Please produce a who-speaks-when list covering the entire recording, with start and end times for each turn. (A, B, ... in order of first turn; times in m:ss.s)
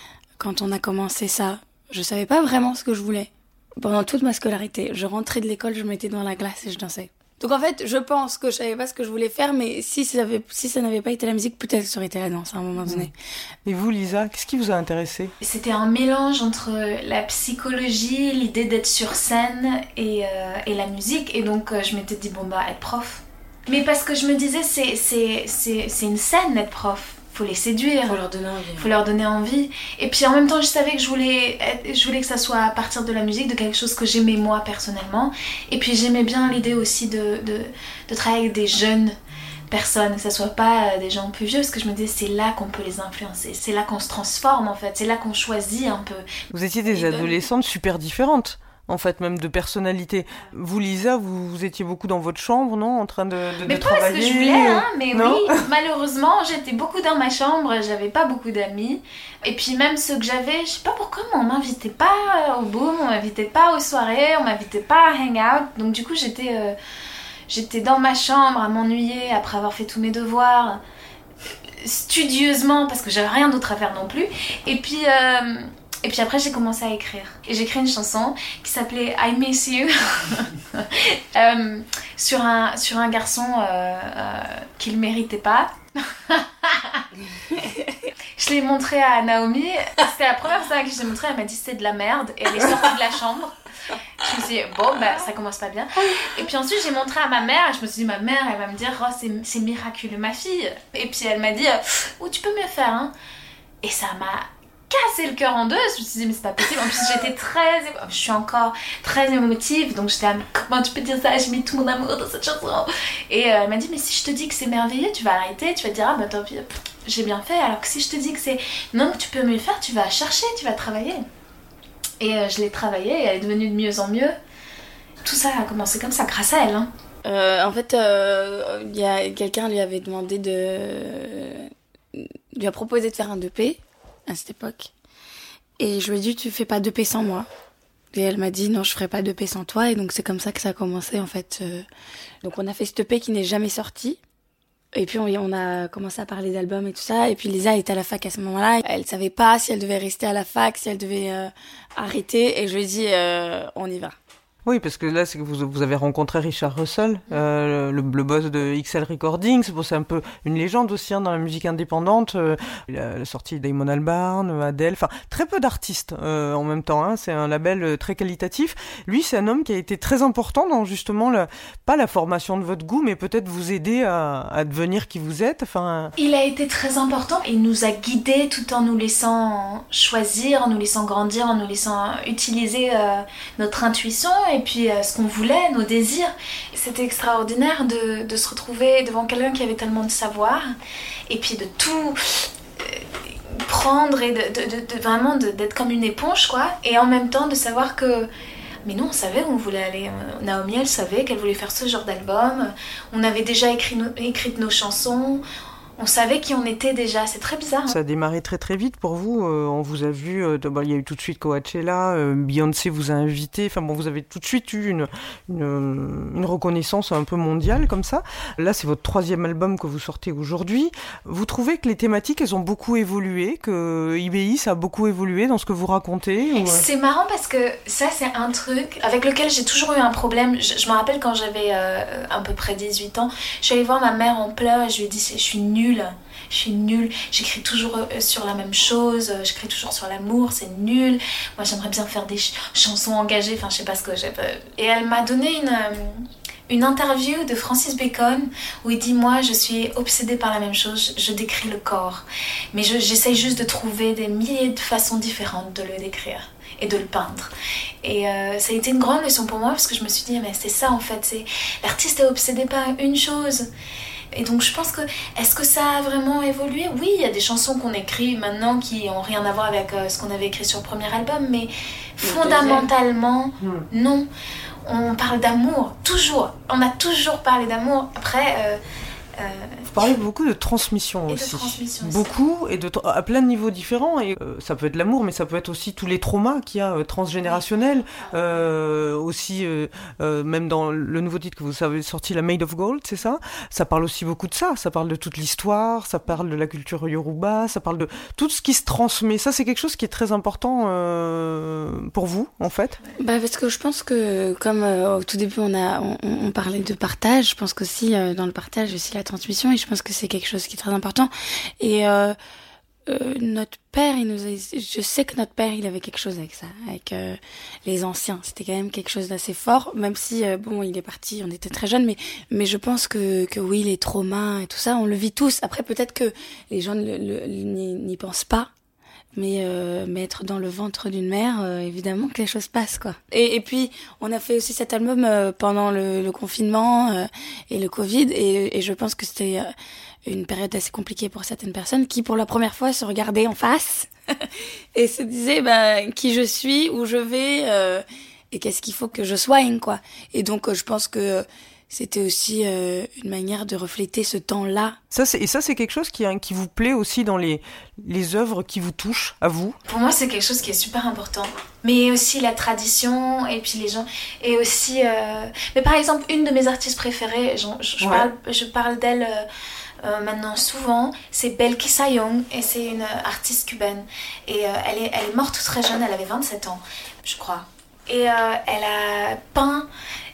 0:00.4-0:13.1 A
0:12.8-0:13.1 B
0:13.6-0:15.3 B
0:15.4-0:28.2 C
0:28.1-0:28.9 A
0:28.8-0:39.2 C
0:39.7-0:46.2 C
0:46.5-0:55.6 B
0:46.9-0:47.4 A
0:53.6-1:06.8 C
1:07.5-1:10.8 C
1:11.8-1:27.1 C
1:28.4-1:33.5 C
1:34.2-1:43.1 C
1:43.8-2:01.2 C
2:02.2-2:04.4 C
2:05.2-2:06.9 C
2:07.2-2:14.9 A
2:15.8-2:17.5 A
2:18.1-2:21.8 A
2:22.4-2:24.2 A
2:24.9-2:34.1 A
2:34.6-2:56.1 B
2:56.2-3:10.7 C
3:11.3-3:18.3 C
3:18.8-3:25.4 C
3:26.0-3:28.0 C
3:27.9-3:46.8 B
3:46.6-4:23.7 C
4:24.3-4:34.3 C
4:32.2-4:32.9 A
4:33.6-4:33.9 B
4:34.8-4:38.8 C
4:39.4-4:39.9 C
4:39.9-5:03.0 B
4:41.3-4:42.3 C
5:03.2-5:12.4 A
5:13.1-5:28.7 A
5:29.4-5:39.7 A
5:40.3-5:55.0 A
5:55.1-5:59.8 B
5:59.9-6:09.5 C
6:08.0-6:08.3 B
6:10.0-6:19.9 C